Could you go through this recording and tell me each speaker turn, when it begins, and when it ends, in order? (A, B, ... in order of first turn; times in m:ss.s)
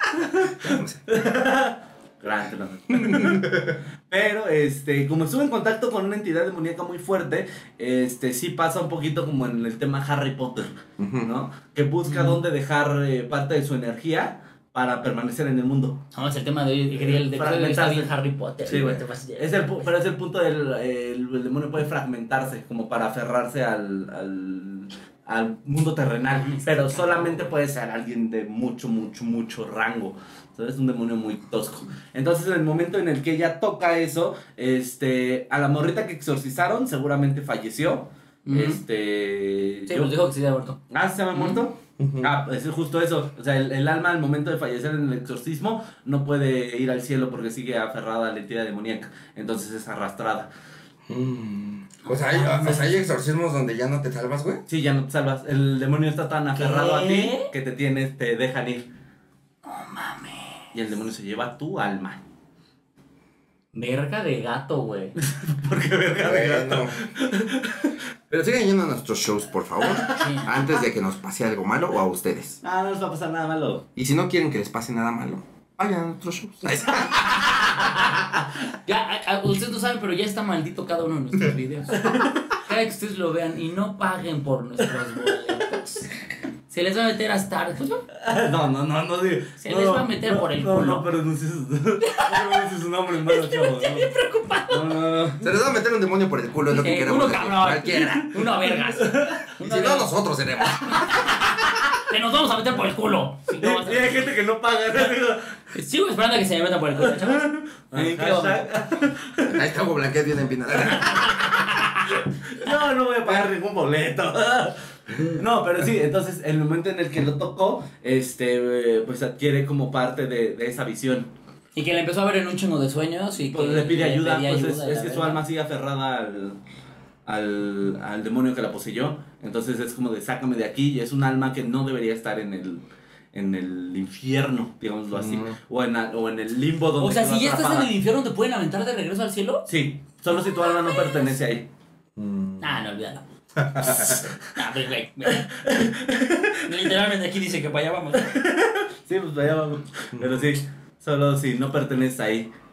0:00.3-0:16.0 A
0:00.4-0:01.0 B
0:02.9-0:03.8 B
0:11.0-0:11.3 B
0:12.0-0:12.4 C
0:16.1-0:19.7 C
0:16.9-0:18.1 A
0:18.7-0:19.0 B
0:18.7-0:40.1 A
0:26.4-0:27.5 C
0:38.4-0:38.8 C
0:39.9-0:40.8 C
0:40.9-0:50.5 A
0:41.3-0:41.6 C
0:42.0-0:42.4 B
0:51.1-0:54.6 B
0:52.0-0:53.0 C
0:54.7-0:58.9 A
0:56.5-0:57.5 C
0:59.6-1:00.6 C
1:00.7-1:02.2 A
1:03.7-1:05.1 C
1:05.2-1:08.0 A
1:06.2-1:07.0 B
1:08.3-1:12.6 B
1:09.9-1:10.3 A
1:10.1-1:10.6 C
1:12.6-1:13.8 A
1:14.0-1:17.2 B
1:17.3-1:26.1 C
1:21.9-1:22.3 A
1:26.7-1:28.0 C
1:28.1-1:34.1 A
1:29.6-1:31.1 C
1:32.0-1:32.7 C
1:33.2-1:35.0 C
1:34.7-1:35.5 A
1:35.4-1:38.4 B
1:36.7-1:40.1 C
1:38.4-1:39.4 A
1:39.6-1:41.2 B
1:40.9-1:44.3 C
1:43.6-1:45.5 A
1:45.7-1:48.6 C
1:47.0-1:49.6 A
1:49.5-1:51.4 B
1:50.9-1:51.3 A
1:51.0-1:52.0 C
1:52.0-2:01.3 A
2:01.7-2:05.4 C
2:03.3-2:06.6 A
2:07.2-2:17.9 A
2:15.1-2:15.6 B
2:17.0-2:19.7 C
2:19.7-2:21.7 A
2:20.6-2:21.2 C
2:22.2-2:22.8 B
2:22.6-2:23.2 C
2:23.6-2:24.2 B
2:23.8-2:25.5 C
2:25.3-2:26.7 A
2:26.6-2:28.4 C
2:28.2-2:32.5 A
2:30.1-2:30.5 B